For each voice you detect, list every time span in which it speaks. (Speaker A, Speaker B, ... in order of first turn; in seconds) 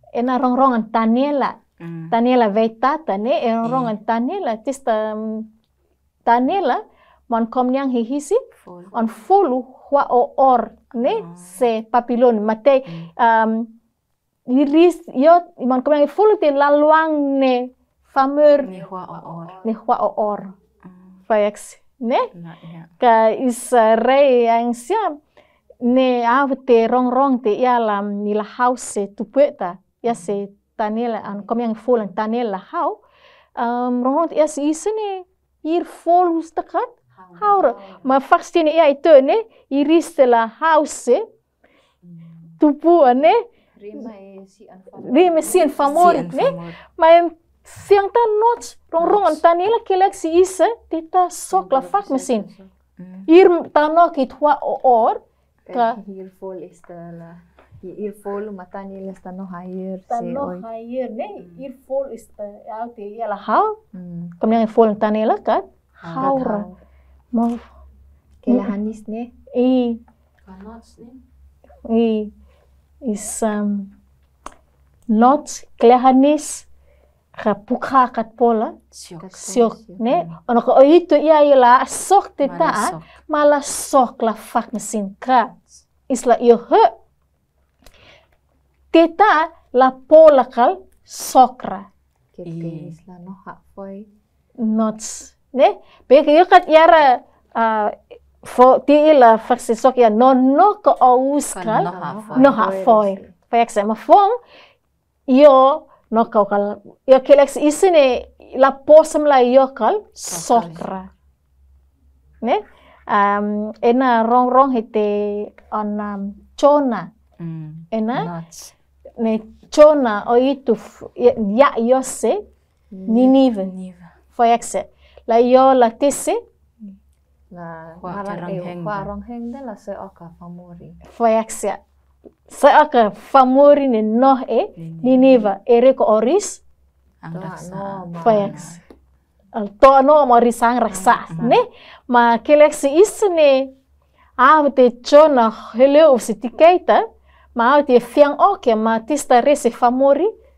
Speaker A: 0.1-1.6, 2.1-5.5, 6.2-8.4, 8.9-13.7, 14.5-18.7, 19.6-20.6, 21.3-22.3, 23.0-25.2, 25.8-33.0, 33.5-41.2, 42.6-43.4, 45.0-52.5, 53.3-56.0, 60.1-63.8, 64.4-66.7, 67.3-67.6, 69.5-70.0, 71.8-72.3, 73.0-73.9, 75.1-76.7, 77.4-78.8, 79.4-85.5, 86.1-86.9, 88.9-91.9, 94.6-104.3, 105.3-111.1, 112.4-117.1, 117.9-118.3, 119.2-122.4, 123.1-123.7, 124.3-126.4, 131.0-131.8, 132.5-136.6, 138.2-138.8, 139.5-143.7, 144.4-147.0, 147.6-150.3
Speaker B: 1.8-2.1, 3.6-3.9, 8.6-8.9, 11.0-11.6, 18.6-19.6, 22.3-22.9, 45.8-46.8, 49.0-49.4, 53.0-53.3, 61.4-61.6, 66.0-66.5, 70.5-71.2, 78.9-79.3, 82.4-83.1, 92.4-92.9, 101.5-102.6, 110.3-110.9, 117.4-118.7, 123.6-124.1, 128.0-129.1, 134.8-135.5, 137.2-138.7, 141.3-141.5
Speaker C: 18.7-19.8, 37.1-38.1, 43.8-46.1, 51.5-52.7, 55.6-60.6, 63.9-64.3, 66.1-66.8, 68.4-69.3, 79.2-80.3, 92.3-94.1, 101.8-103.3, 122.9-123.3, 127.5-131.0, 137.3-138.7, 141.0-141.6